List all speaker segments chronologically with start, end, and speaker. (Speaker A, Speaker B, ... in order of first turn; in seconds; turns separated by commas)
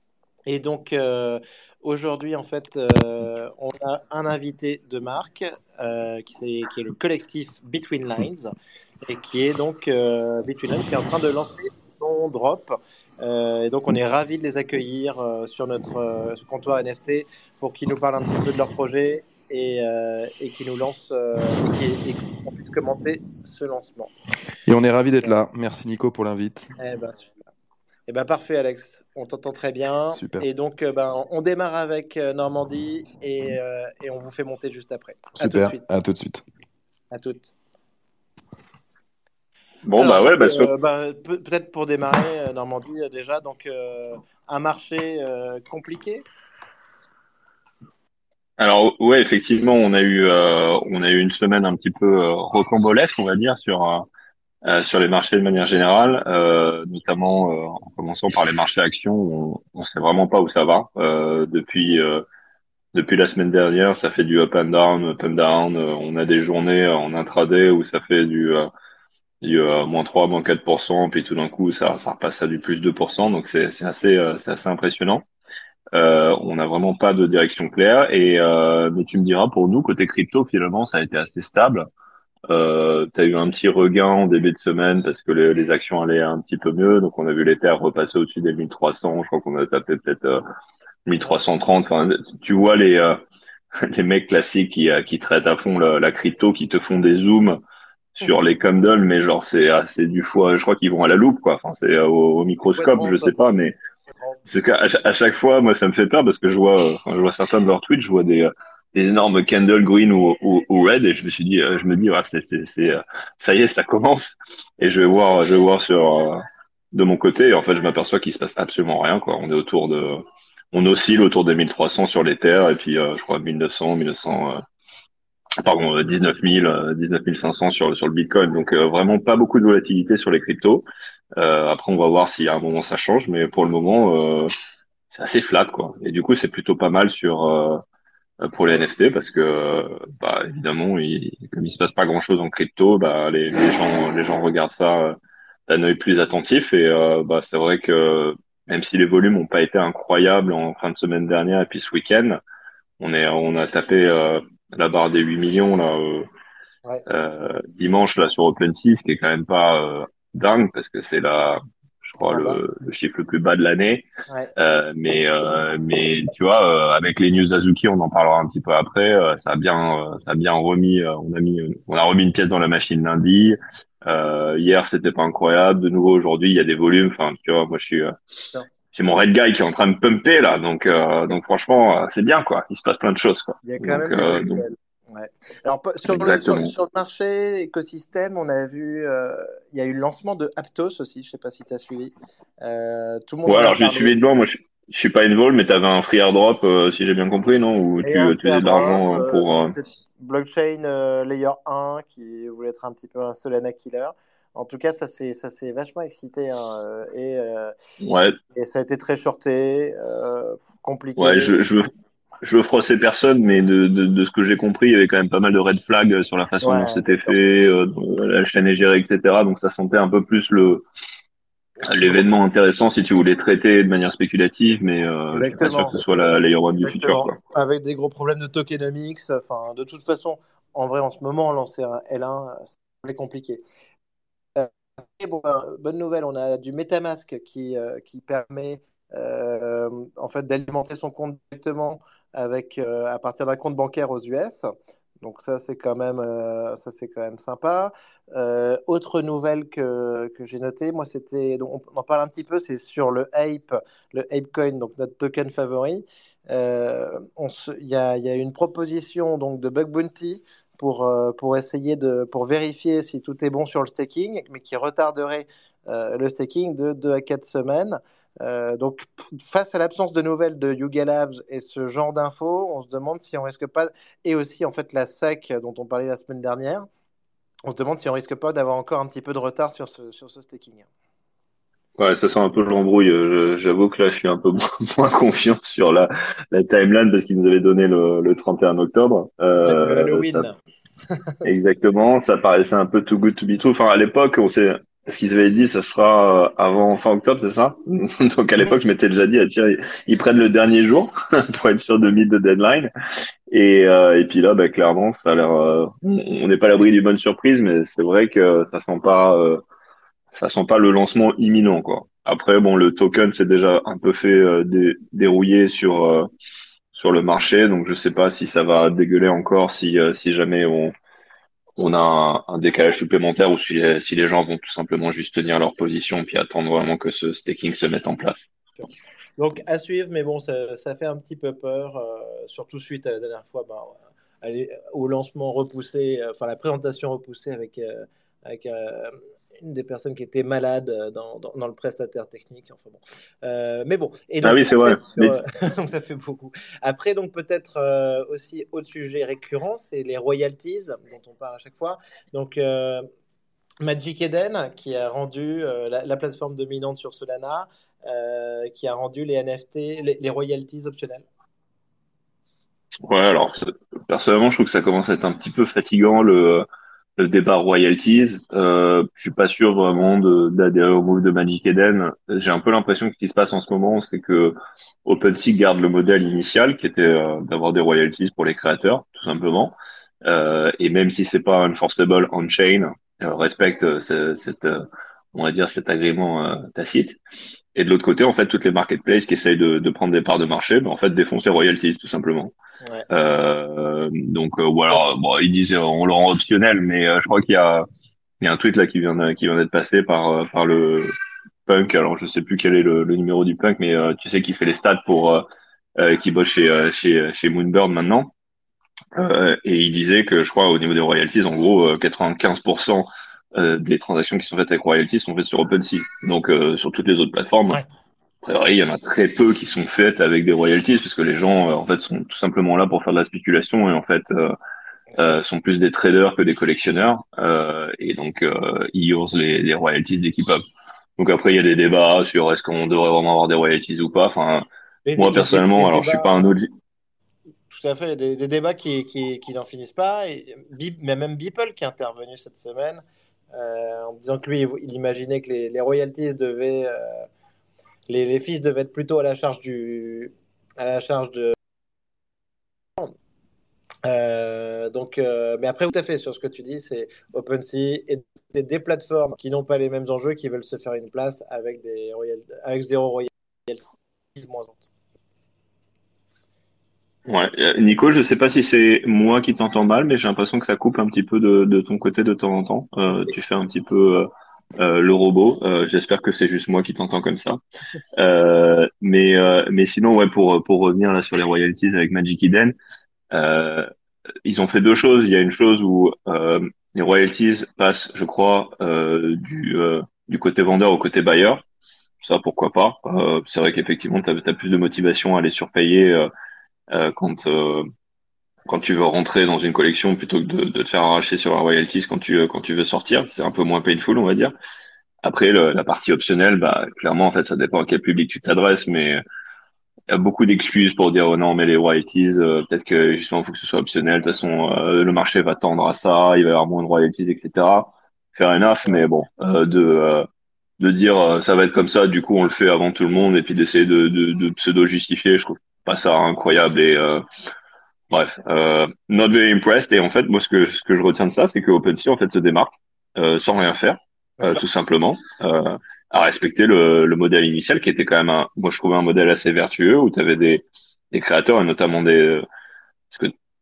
Speaker A: 0.5-8.5, Speaker A: 9.0-24.1, Speaker B: 24.6-26.7, Speaker A: 26.8-27.4, Speaker A: 28.1-35.9, Speaker B: 30.1-30.4, Speaker B: 35.3-36.4, Speaker A: 37.1-37.5, Speaker C: 39.8-40.7, Speaker A: 40.0-46.2, Speaker C: 48.6-54.0, Speaker C: 54.6-62.2, Speaker C: 62.9-68.7, Speaker C: 69.4-75.2, Speaker C: 75.9-81.9, Speaker C: 82.5-90.4, Speaker C: 91.0-93.2, Speaker C: 93.9-97.6, Speaker C: 98.2-103.8, Speaker A: 102.8-103.4, Speaker A: 104.1-104.4, Speaker C: 104.5-116.4, Speaker C: 116.9-124.6, Speaker C: 125.6-130.8, Speaker C: 131.4-134.5, Speaker C: 135.1-137.8, Speaker C: 138.4-145.1, Speaker C: 145.7-152.4, Speaker C: 153.0-156.3, Speaker C: 157.1-178.1, Speaker A: 162.3-162.6, Speaker C: 178.9-184.6, Speaker A: 183.6-194.1, Speaker C: 186.1-186.7, Speaker C: 193.5-199.7, Speaker A: 198.0-207.7, Speaker C: 208.0-208.4, Speaker A: 208.5-211.6, Speaker C: 211.2-211.8, Speaker C: 212.4-220.8, Speaker A: 216.6-217.3, Speaker C: 221.8-227.3, Speaker A: 225.3-226.0, Speaker A: 226.8-233.6, Speaker A: 234.6-244.7, Speaker A: 245.2-276.9, Speaker A: 277.6-280.9, Speaker C: 282.0-290.4, Speaker A: 289.6-290.6, Speaker C: 291.4-302.9, Speaker C: 303.5-309.6, Speaker C: 310.3-316.3, Speaker C: 316.9-320.9, Speaker C: 321.8-328.5, Speaker A: 328.8-353.1, Speaker C: 344.4-345.4, Speaker A: 353.8-361.2, Speaker C: 363.1-366.6, Speaker C: 367.2-387.2, Speaker C: 387.7-392.5, Speaker C: 393.1-397.9, Speaker C: 398.4-401.1, Speaker C: 401.6-405.4, Speaker C: 406.0-408.3, Speaker C: 409.1-417.8, Speaker C: 418.4-424.5, Speaker C: 425.2-430.6, Speaker C: 431.2-436.6, Speaker A: 435.1-436.3, Speaker A: 437.7-447.3, Speaker A: 448.1-451.6, Speaker A: 454.0-463.8, Speaker A: 464.3-464.9, Speaker C: 467.3-477.6, Speaker C: 478.1-482.7, Speaker C: 483.3-483.9, Speaker C: 484.4-491.6, Speaker C: 492.2-496.3, Speaker C: 496.9-497.8, Speaker C: 498.7-504.5, Speaker C: 505.2-509.2, Speaker C: 510.1-520.2, Speaker C: 520.8-527.2, Speaker C: 528.1-542.4